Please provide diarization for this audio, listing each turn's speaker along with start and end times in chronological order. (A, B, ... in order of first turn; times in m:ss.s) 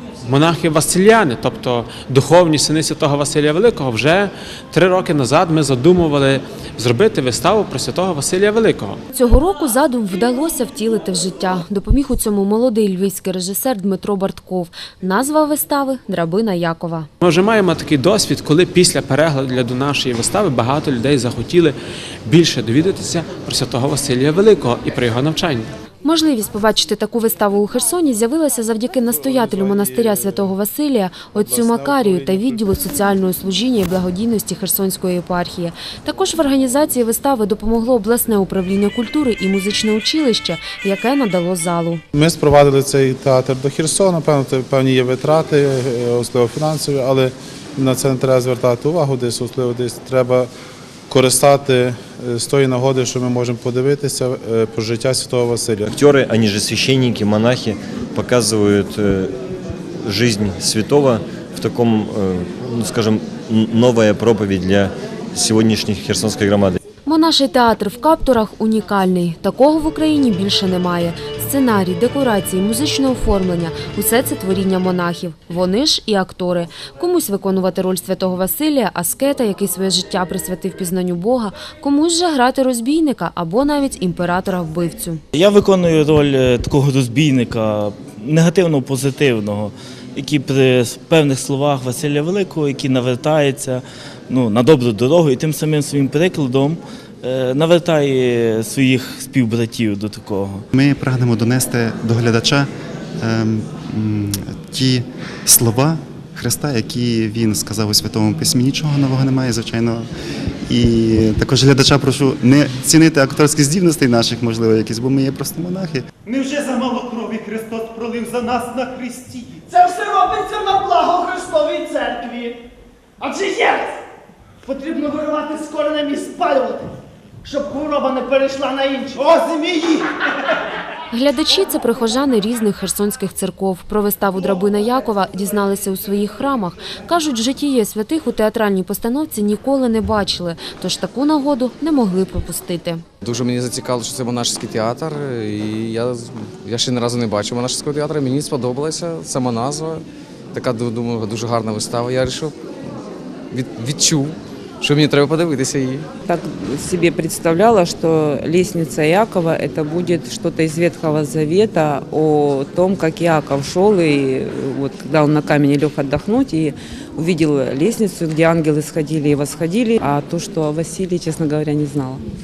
0:00.2-0:09.0 A
0:09.1-0:17.1 B
0:17.2-0:25.7 A
0:26.0-0:42.0 B
0:29.5-0:29.9 C
0:31.4-0:32.5 C
0:42.1-0:50.5 C
0:51.1-0:55.9 C
0:55.9-0:59.4 D
1:00.0-1:06.8 D
1:07.0-1:25.2 B
1:25.3-1:40.6 E
1:40.7-1:42.7 F
1:43.2-1:50.1 F
1:50.7-1:56.1 F
1:56.2-1:59.6 G
1:59.7-2:02.6 H
2:03.2-2:04.0 H
2:04.6-2:06.9 H
2:07.4-2:10.1 H
2:11.1-2:23.0 B
2:23.2-2:32.6 I
2:33.5-2:36.1 I
2:36.2-2:52.2 J